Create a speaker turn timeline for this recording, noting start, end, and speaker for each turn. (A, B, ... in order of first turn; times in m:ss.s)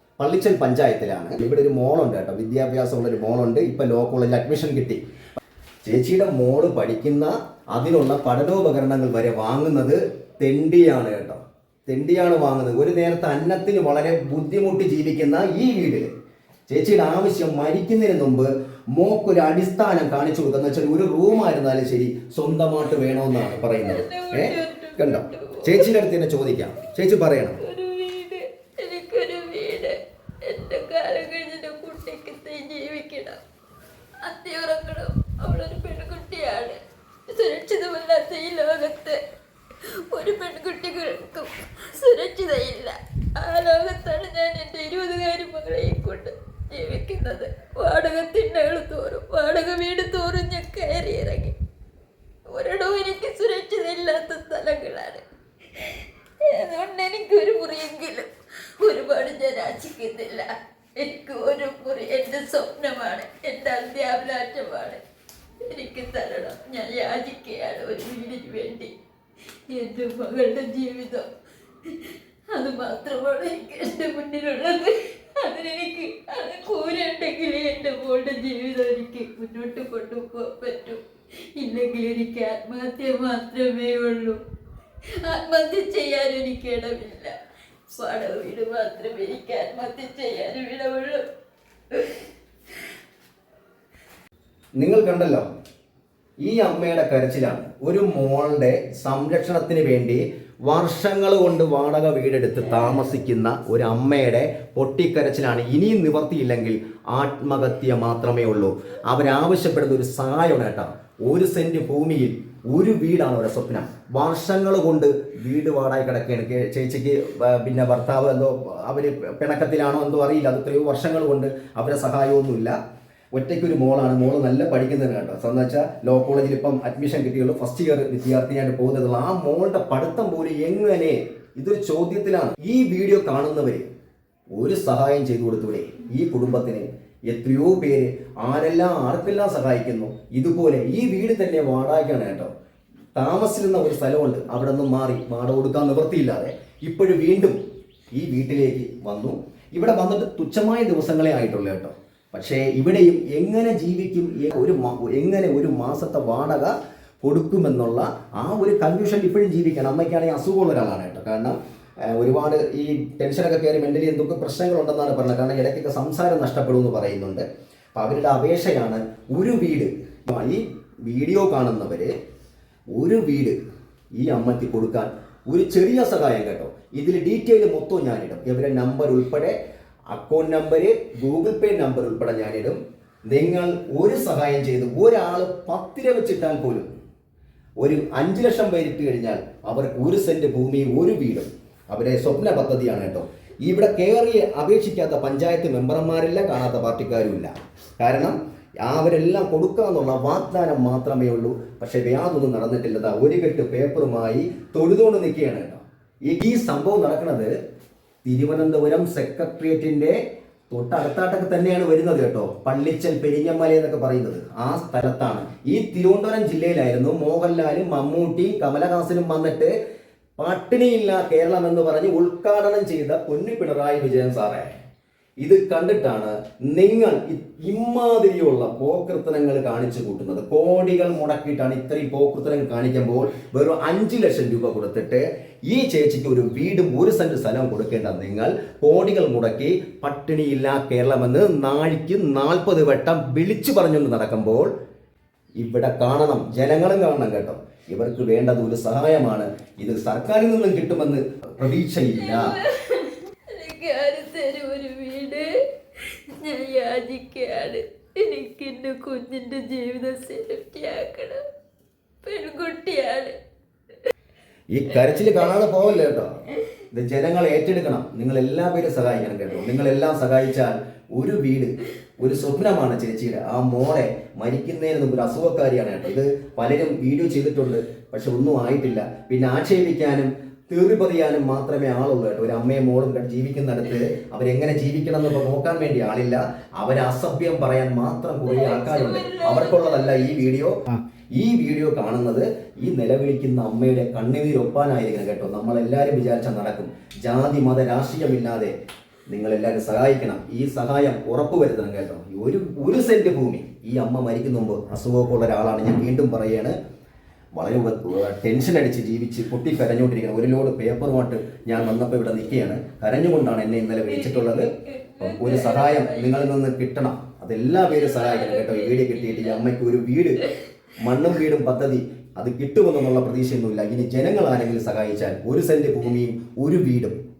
0:00.2-0:05.0 A
0:05.8-0:16.1 A
0:16.7-0:27.6 A
0:23.8-0:25.9 B
0:27.6-0:33.4 B
0:34.2-0:39.2 B
0:40.1-0:51.6 B
0:52.5-0:55.2 B
0:55.7-1:05.0 B
1:05.6-1:08.9 B
1:09.7-1:11.3 B
1:11.8-1:21.0 B
1:21.6-1:24.4 B
1:25.2-1:27.3 B
1:27.9-1:31.2 B
1:31.9-1:32.2 B
1:34.8-1:35.4 A
1:36.4-2:02.7 A
2:03.3-2:13.8 A
2:14.6-2:22.5 A
2:23.2-2:27.6 A
2:28.2-2:47.4 A
2:47.9-2:52.1 A
2:52.9-2:53.6 A
2:54.2-2:59.5 A
3:00.1-3:02.8 A
3:03.3-3:06.9 A
3:07.8-3:27.5 A
3:28.2-3:30.2 A
3:30.7-3:39.7 A
3:40.4-3:44.7 A
3:45.4-4:04.7 A
4:05.6-4:12.6 A
4:12.1-4:15.5 B
4:16.1-4:21.4 B
4:22.2-4:23.4 B
4:24.7-4:26.3 A
4:25.4-4:25.6 B
4:26.9-4:58.7 A
4:48.4-4:50.3 B
4:59.3-5:06.7 A
5:07.6-5:14.7 A
5:14.0-5:16.5 B
5:15.2-5:20.4 A
5:17.8-5:19.6 B
5:21.0-5:27.2 A